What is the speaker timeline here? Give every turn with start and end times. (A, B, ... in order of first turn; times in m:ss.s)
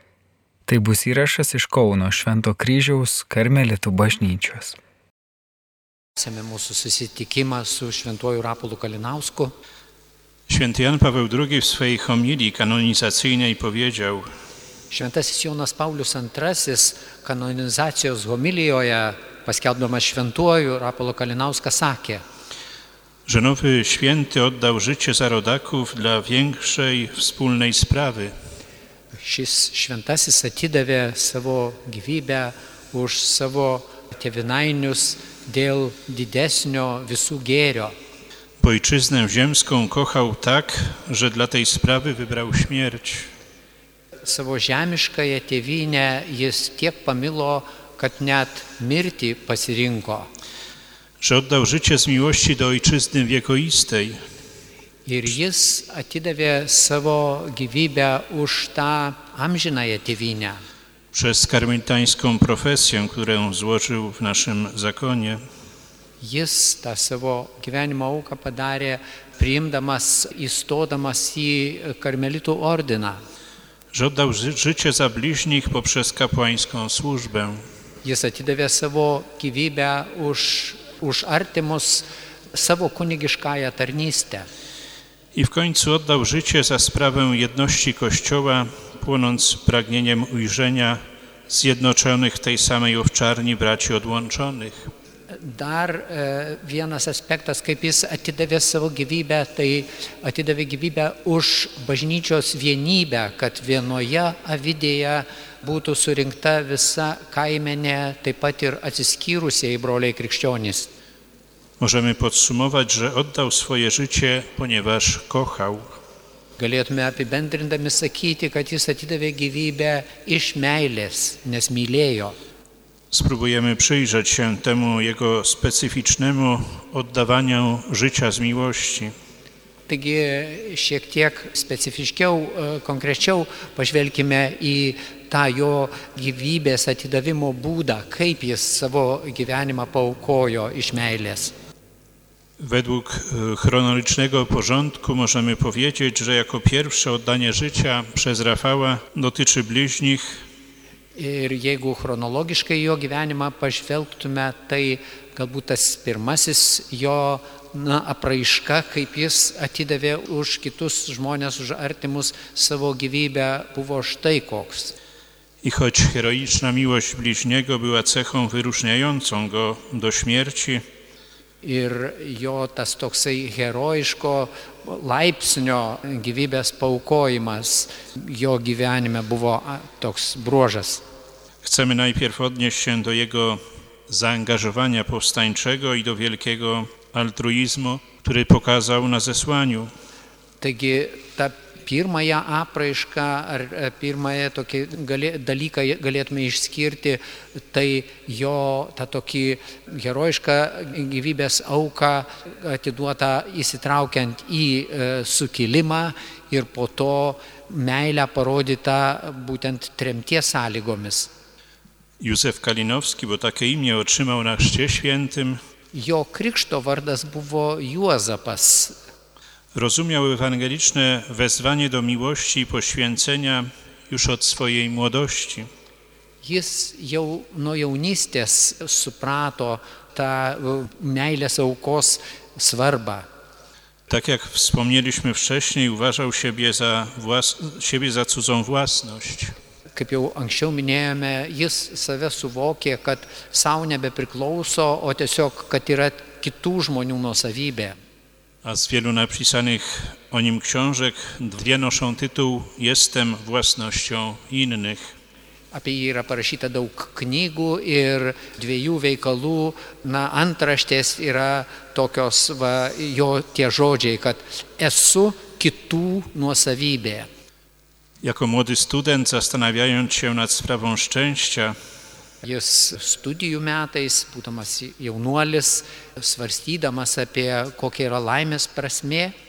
0:00.7-0:04.8 A
0:06.2-0:09.5 B
0:10.5-0:14.3 C
0:14.9-0:22.2 B
0:23.2-0:28.3 C
0:29.2-0:38.0 B
0:38.6-0:43.3 C
0:44.2-0:50.3 B
0:51.2-0:54.2 C
0:55.0-1:00.6 B
1:01.1-1:05.4 C
1:06.2-1:13.2 B
1:13.9-1:17.6 C
1:18.0-1:24.5 B
1:25.3-1:34.9 C
1:35.3-1:50.9 B
1:51.8-1:56.0 C
1:56.6-2:02.4 B
2:03.1-2:09.1 C
2:09.9-2:21.5 B
2:22.6-2:30.4 C
2:31.1-2:44.9 B
2:45.6-2:50.8 C
2:51.6-3:01.0 B
3:01.6-3:09.9 C
3:10.6-3:31.3 B
3:32.2-3:35.6 C
3:35.9-3:39.0 B
3:39.7-3:45.7 C
3:46.4-3:53.3 B
3:54.1-3:59.5 C
3:59.9-4:08.0 B
4:08.6-4:15.1 C
4:15.7-4:27.3 B
4:28.2-4:31.8 C
4:32.4-4:39.3 B